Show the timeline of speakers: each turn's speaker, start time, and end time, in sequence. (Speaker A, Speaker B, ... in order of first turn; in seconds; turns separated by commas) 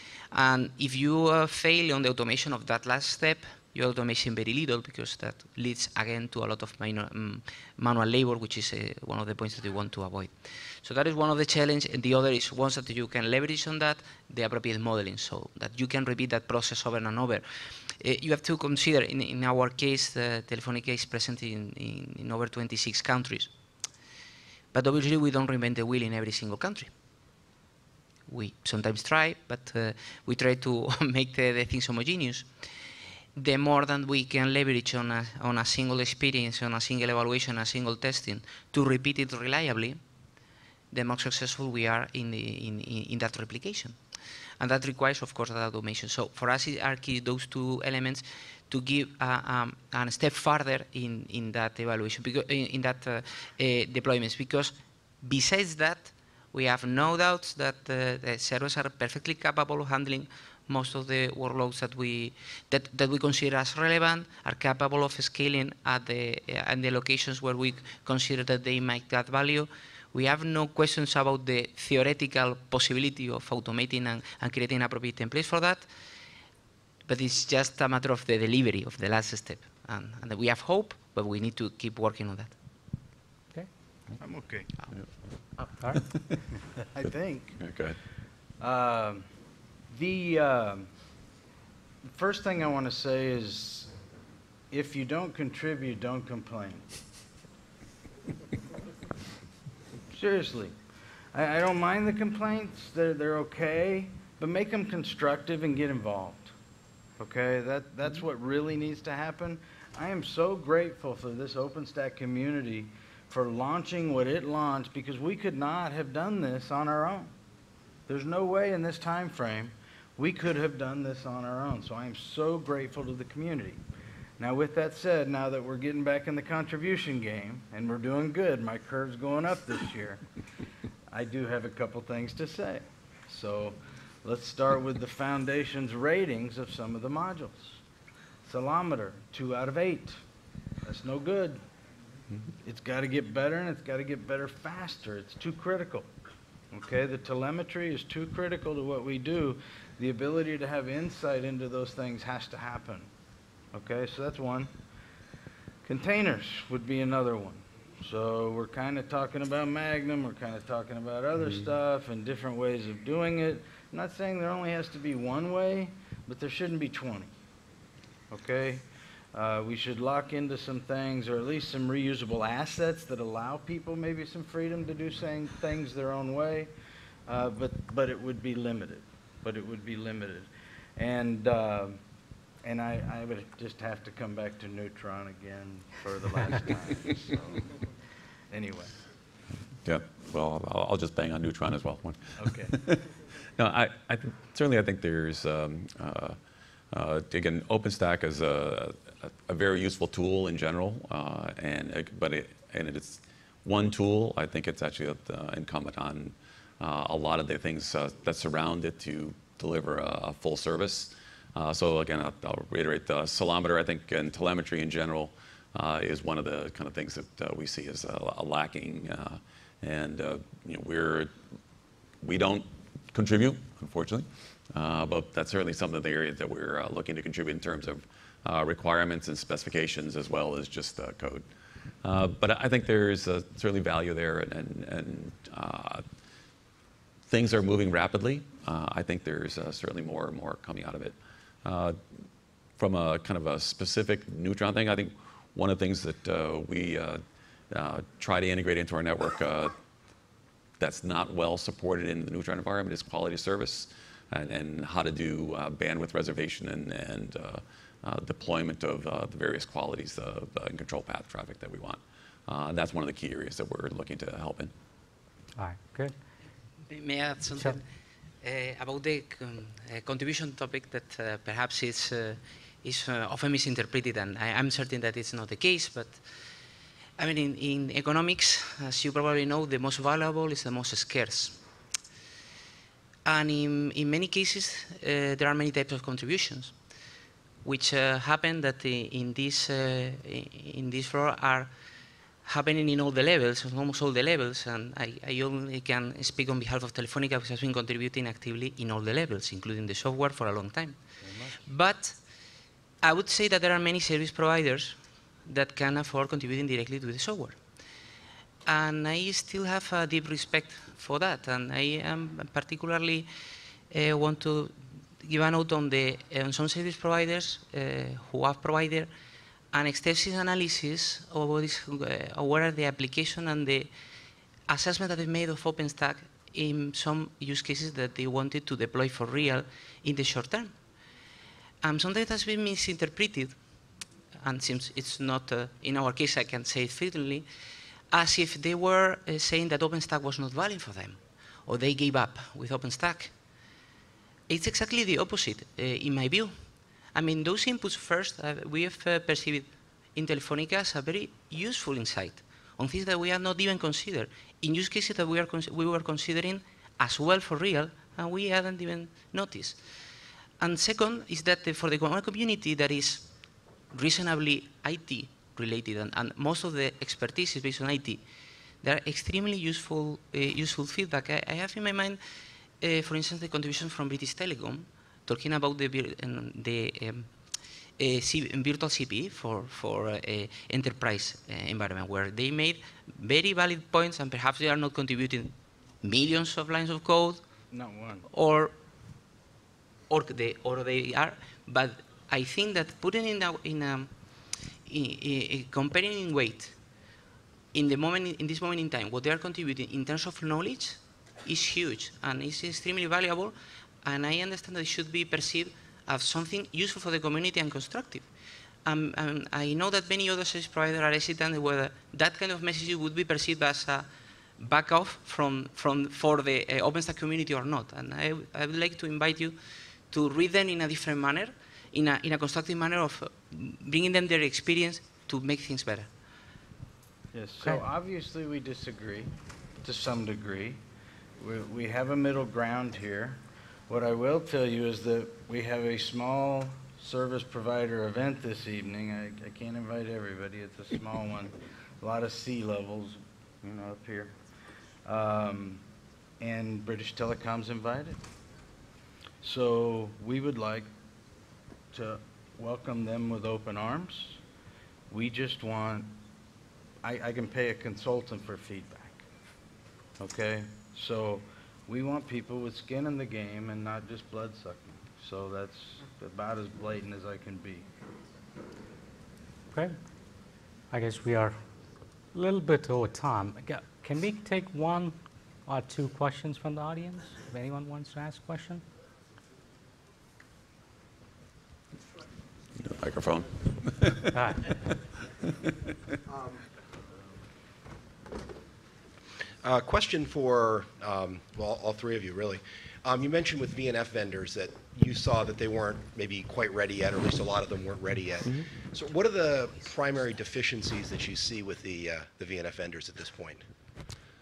Speaker A: 0.3-23.5, Speaker A: 24.7-26.9, Speaker A: 28.3-32.5, Speaker A: 33.4-40.0, Speaker A: 40.9-44.0, Speaker A: 44.6-75.9, Speaker A: 77.1-82.5, Speaker B: 84.2-84.7, Speaker C: 84.9-85.2, Speaker A: 85.6-86.1, Speaker B: 86.9-87.6, Speaker C: 87.6-88.0, Speaker B: 88.6-89.2, Speaker B: 89.9-90.9, Speaker B: 92.0-93.9, Speaker B: 94.7-96.9, Speaker B: 100.1-100.8, Speaker B: 101.3-106.5, Speaker B: 107.2-117.3, Speaker B: 118.1-123.8, Speaker B: 124.4-130.2, Speaker B: 131.1-137.8, Speaker B: 138.4-140.2, Speaker B: 140.8-141.6, Speaker B: 142.6-146.1, Speaker B: 146.7-153.1, Speaker B: 153.7-154.7, Speaker B: 155.8-167.3, Speaker B: 168.3-176.7, Speaker B: 177.3-182.0, Speaker B: 182.6-187.6, Speaker B: 188.5-188.9, Speaker C: 189.8-196.4, Speaker B: 192.4-192.8, Speaker C: 196.9-221.3, Speaker C: 222.2-231.5, Speaker C: 232.0-236.1, Speaker C: 237.3-242.0, Speaker C: 242.8-249.8, Speaker C: 250.8-264.7, Speaker D: 265.6-266.1, Speaker A: 266.9-267.9, Speaker A: 268.4-276.2, Speaker A: 277.2-281.6, Speaker A: 283.2-286.8, Speaker A: 287.6-291.7, Speaker A: 292.4-302.5, Speaker B: 301.2-301.6, Speaker A: 303.0-307.9, Speaker A: 308.7-313.3, Speaker A: 313.9-319.1, Speaker A: 319.7-323.9, Speaker A: 324.7-330.8, Speaker A: 331.8-337.5, Speaker A: 338.1-343.4, Speaker A: 344.5-359.8, Speaker A: 360.6-363.3, Speaker A: 363.9-368.2, Speaker A: 368.8-372.2, Speaker A: 372.8-387.4, Speaker B: 387.7-388.3, Speaker A: 388.3-388.8, Speaker A: 390.1-396.8, Speaker A: 397.7-408.3, Speaker A: 408.9-414.1, Speaker A: 414.6-426.1, Speaker B: 427.3-430.8, Speaker B: 431.4-444.4, Speaker B: 445.1-445.8, Speaker B: 446.4-448.2, Speaker B: 449.4-450.9, Speaker B: 451.9-454.4, Speaker B: 455.1-456.2, Speaker B: 457.0-459.2, Speaker B: 460.2-467.9, Speaker D: 469.7-470.0, Speaker D: 470.9-471.6, Speaker D: 472.3-478.8, Speaker C: 482.8-484.9, Speaker D: 484.3-484.6, Speaker E: 489.6-503.7